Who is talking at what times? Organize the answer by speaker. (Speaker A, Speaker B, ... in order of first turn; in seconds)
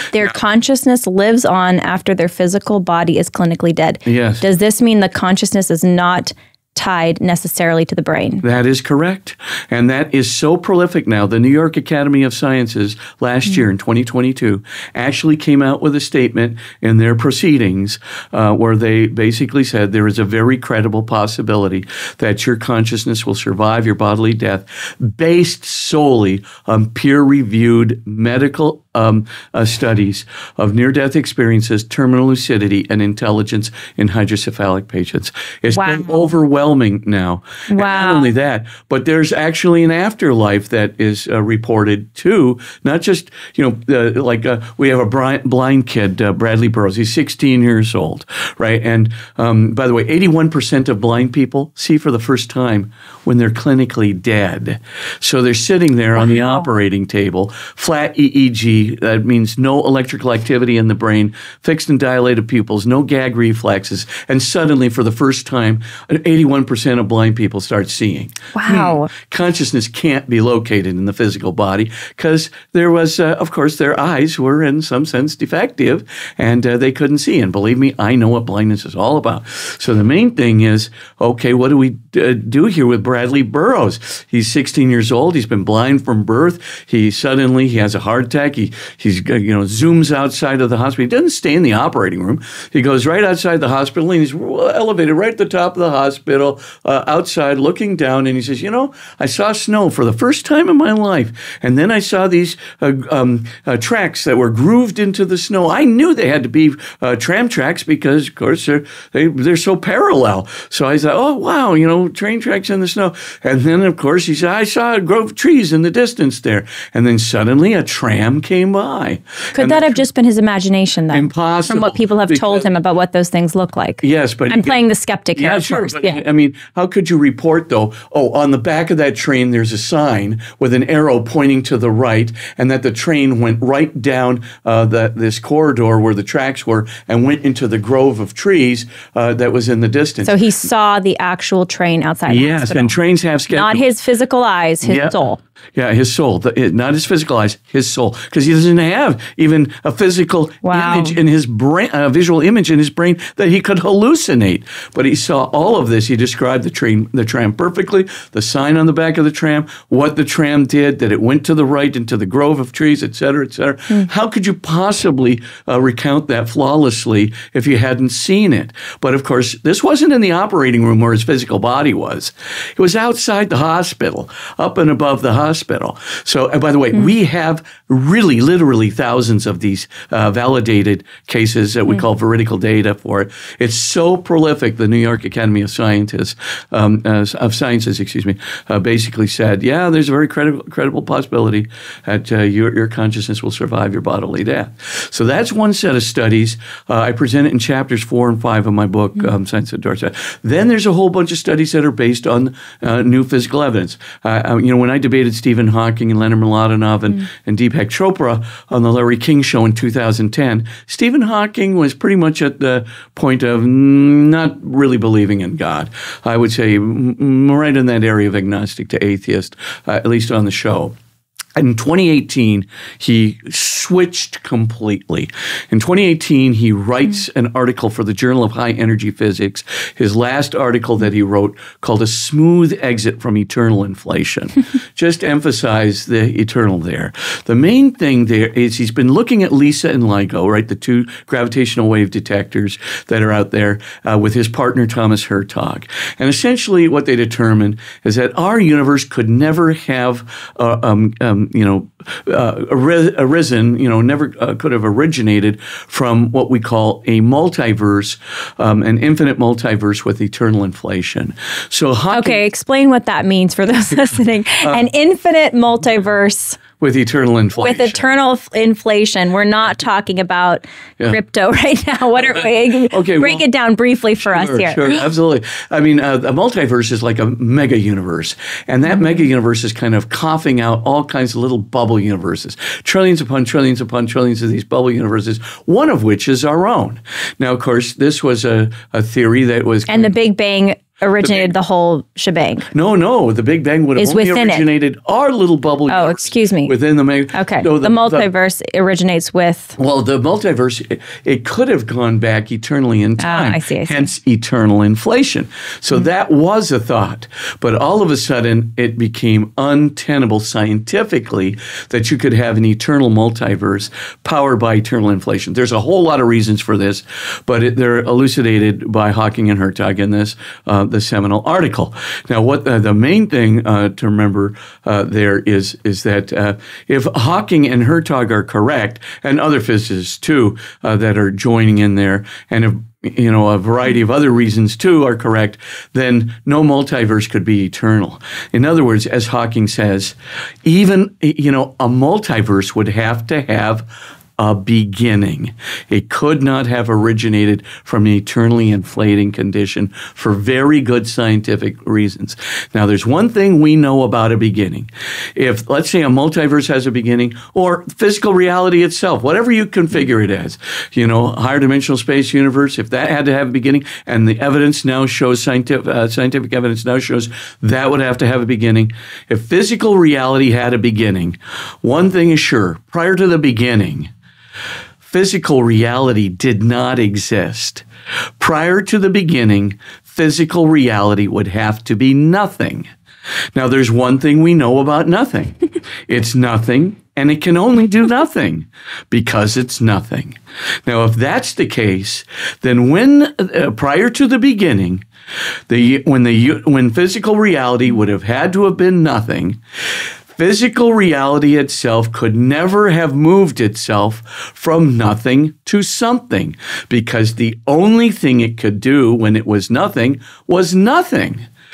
Speaker A: 0.1-8.4, 35.7-36.1, 37.7-38.3, 68.5-69.1, 119.5-126.2, 140.2-142.9, 143.5-145.4, 150.6-151.2, 262.1-266.6, 267.6-275.0, 289.9-292.7, 294.0-294.6, 295.9-296.7, 297.3-299.8, 303.2-304.1
Speaker B: 4.0-4.4, 8.4-120.0, 121.1-122.7, 124.0-124.8, 125.3-140.3, 142.3-143.9, 144.8-145.2, 145.8-220.9, 221.6-262.4, 266.8-268.0, 272.9-273.4, 274.2-290.1, 291.2-291.5, 292.7-298.2, 299.8-374.1, 375.0-377.8, 378.4-382.9, 383.5-385.6, 386.1-395.0, 395.7-399.6, 400.3-411.5